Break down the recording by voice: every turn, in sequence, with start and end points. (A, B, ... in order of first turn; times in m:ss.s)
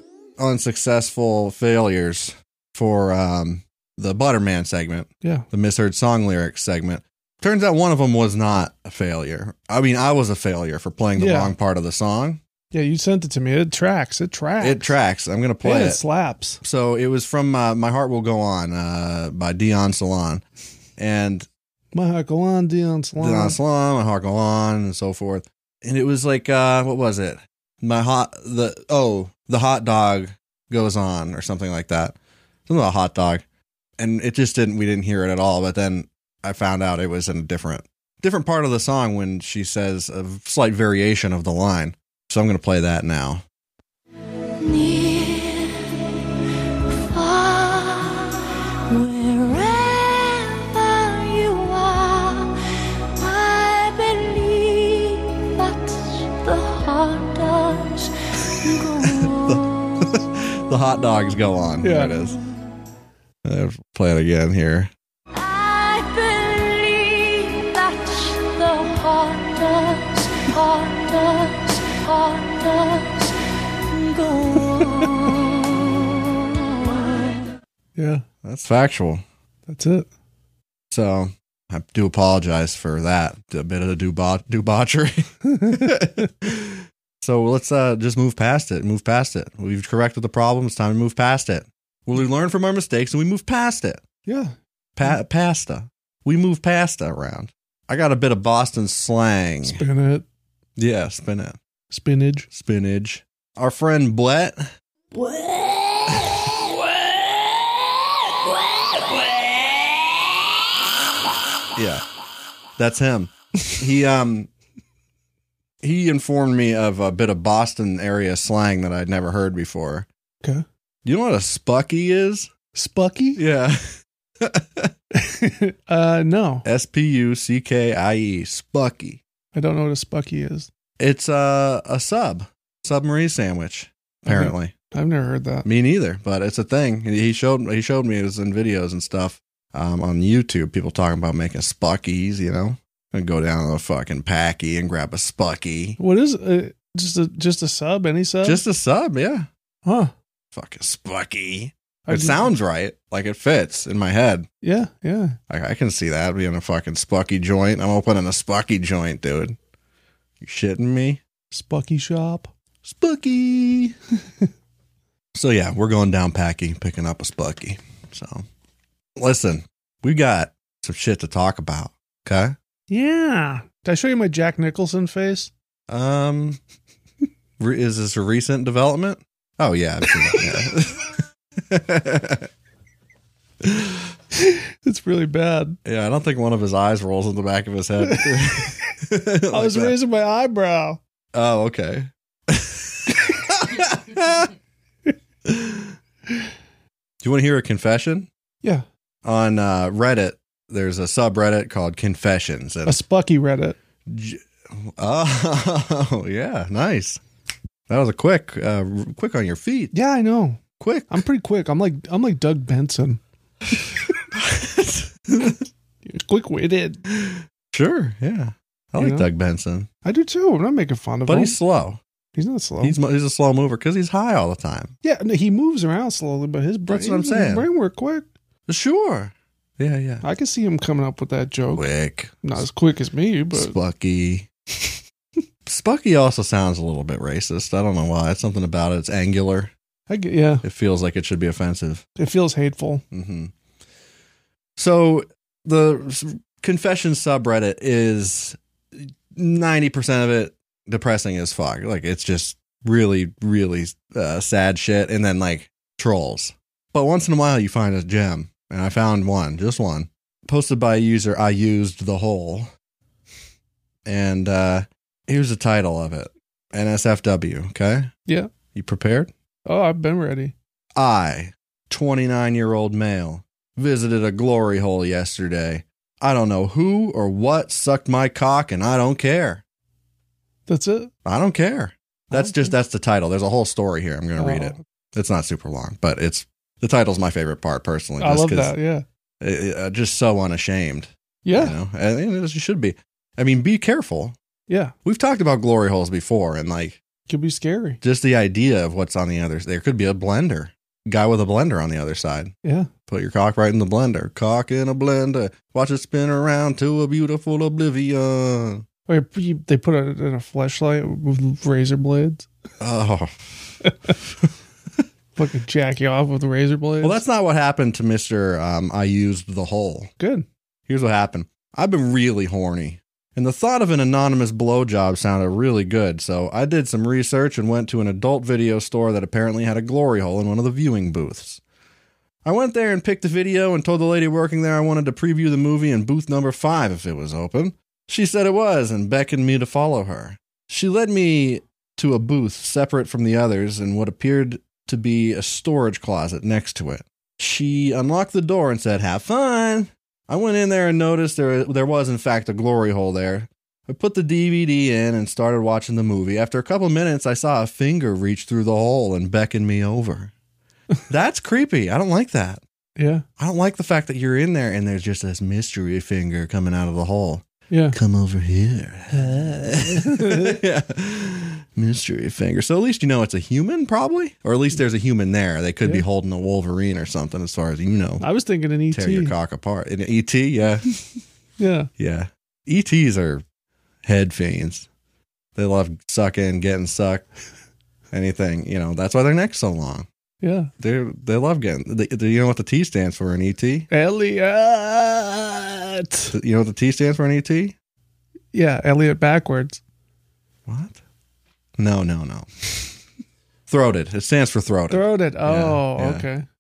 0:00.4-0:12.4 A
0:05.2-0:05.5 B
0:11.2-0:11.5 B
0:12.7-0:15.0 B
0:14.6-0:16.0 A
0:15.6-0:16.6 B
0:16.6-0:20.4 A
0:21.0-0:21.5 A
0:21.9-0:23.6 B
0:23.2-0:32.2 A
0:32.7-0:33.4 A
0:34.0-0:43.4 A
0:44.6-0:46.3 C
0:46.9-0:52.6 C
0:53.2-0:59.6 C
0:59.2-1:02.4 A
1:01.8-1:02.2 B
1:03.4-1:04.9 A
1:05.3-1:15.9 C
1:16.7-1:17.5 C
1:18.0-1:18.2 B
1:18.4-1:19.2 A
1:19.7-1:20.1 B
1:20.9-1:34.0 A
1:25.4-1:26.3 B
1:34.3-1:34.5 B
1:35.0-1:39.8 A
1:39.7-1:40.2 B
1:40.8-1:41.6 A
1:41.9-1:42.5 B
1:42.5-1:44.7 A
1:45.1-1:50.4 C
1:51.8-1:52.0 A
1:52.8-1:54.5 A
1:55.8-2:00.1 A
2:01.0-2:02.5 A
2:02.8-2:03.4 B
2:03.4-2:04.9 A
2:05.2-2:06.7 B
2:06.6-2:09.2 A
2:09.5-2:10.7 B
2:11.0-2:14.7 A
2:14.3-2:15.7 B
2:15.6-2:26.0 A
2:26.0-2:28.6 B
2:28.4-2:29.5 A
2:29.8-2:30.1 B
2:30.5-2:34.5 A
2:32.1-2:32.5 B
2:34.6-2:35.4 B
2:35.5-2:39.6 A
2:40.4-2:41.2 A
2:41.5-2:42.5 B
2:42.8-2:44.0 A
2:45.4-2:48.5 A
2:49.2-2:52.6 A
2:52.9-2:55.5 B
2:55.9-2:56.6 A
2:57.6-3:02.5 A
3:03.6-3:04.1 A
3:04.3-3:05.8 B
3:05.8-3:10.0 A
3:08.0-3:08.7 B
3:09.5-3:11.0 B
3:11.3-3:14.5 A
3:15.5-3:15.9 A
3:17.2-3:18.3 A
3:19.2-3:23.0 A
3:22.9-3:23.8 B
3:24.1-3:27.2 A
3:27.9-3:29.9 A
3:29.9-3:33.2 B
3:30.8-3:31.2 A
3:34.3-3:35.7 A
3:36.1-3:37.0 B
3:37.1-3:39.9 A
3:39.0-3:39.3 B
3:40.0-3:41.6 B
3:41.3-3:42.0 A
3:42.4-3:43.0 B
3:42.8-3:44.9 A
3:45.0-3:48.3 B
3:46.9-3:47.7 A
3:48.7-3:50.2 A
3:50.2-3:51.9 B
3:51.8-3:52.4 A
3:52.4-3:53.8 B
3:53.5-3:54.5 A
3:55.7-3:59.7 A
4:00.1-4:00.6 B
4:00.6-4:02.0 A
4:02.2-4:03.0 B
4:03.1-4:03.5 A
4:04.8-4:22.7 A
4:24.1-4:28.1 A
4:28.7-4:29.3 A
4:29.7-4:30.5 B
4:31.0-4:39.6 A
4:40.7-4:41.1 B
4:41.2-4:48.8 A
4:42.3-4:42.7 B
4:44.4-4:44.8 B
4:48.2-4:49.0 B
4:49.4-4:54.4 A
4:51.4-4:51.8 B
4:54.7-4:54.9 B
4:55.0-4:57.0 A
4:57.3-4:58.0 B
4:58.0-5:02.5 A
5:02.6-5:02.9 B
5:03.1-5:08.8 A
5:09.1-5:12.5 B
5:12.8-5:13.8 A
5:15.4-5:17.2 B
5:17.0-5:20.1 A
5:20.2-5:20.5 B
5:20.9-5:31.6 A
5:32.4-6:00.3 A
6:01.1-6:02.6 A
6:03.0-6:03.2 B
6:03.4-6:18.3 A
6:07.7-6:08.0 B
6:09.1-6:10.6 B
6:18.2-6:19.4 B
6:18.9-6:20.9 A
6:21.6-6:21.9 B
6:22.0-6:23.4 A
6:24.0-6:24.9 A
6:25.6-6:27.3 A
6:28.1-6:30.1 A
6:30.4-6:30.7 B
6:30.8-6:33.9 A
6:33.9-6:36.3 B
6:36.3-6:37.8 A
6:38.5-6:39.8 B
6:40.7-6:41.0 A
6:41.8-6:42.5 A
6:43.7-6:46.3 A
6:44.9-6:46.5 B